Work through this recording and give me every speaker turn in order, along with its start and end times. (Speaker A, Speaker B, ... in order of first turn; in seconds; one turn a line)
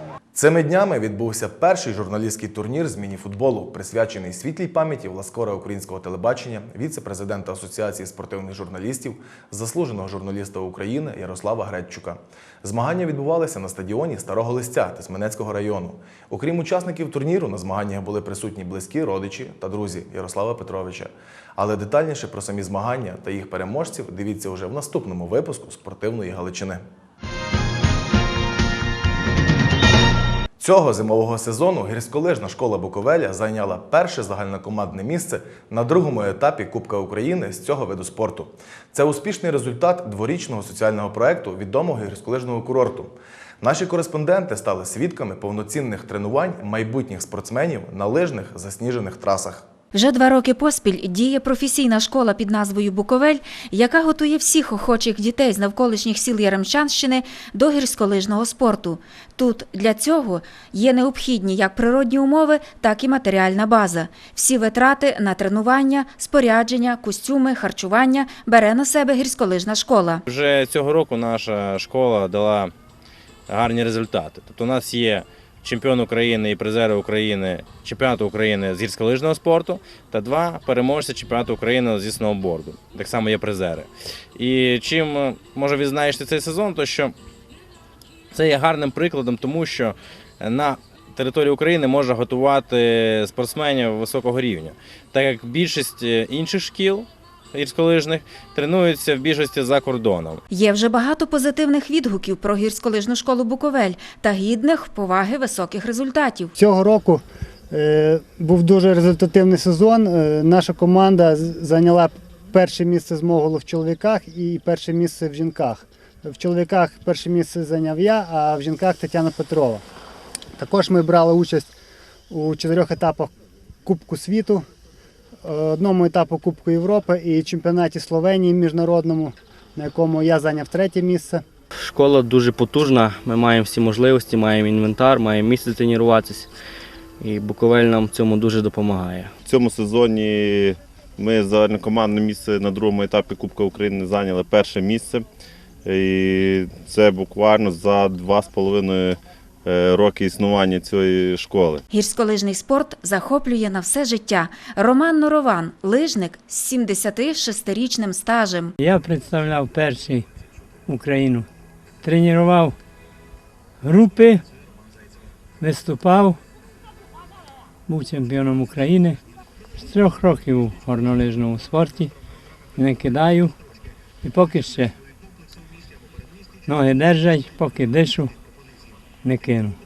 Speaker A: 0.3-26.8
Speaker A: 30.6-49.6
Speaker B: 49.9-70.2
Speaker C: 70.2-72.7
Speaker C: 73.5-87.1
Speaker C: 88.3-100.4
Speaker B: 100.5-106.5
Speaker D: 106.5-119.8
Speaker D: 120.6-121.7
Speaker D: 122.3-123.3
Speaker D: 123.8-124.6
Speaker D: 125.4-131.4
Speaker E: 131.8-136.5
Speaker E: 137.2-139.3
Speaker F: 139.4-145.2
Speaker F: 145.8-151.8
Speaker B: 151.9-158.7
Speaker G: 158.8-160.2
Speaker G: 160.9-161.5
Speaker G: 162.0-162.8
Speaker G: 163.8-164.4
Speaker G: 165.6-166.4
Speaker G: 167.9-169.2
Speaker G: 169.8-172.1
Speaker G: 172.8-173.5
Speaker G: 174.2-174.9
Speaker G: 176.7-178.3
Speaker G: 179.2-179.8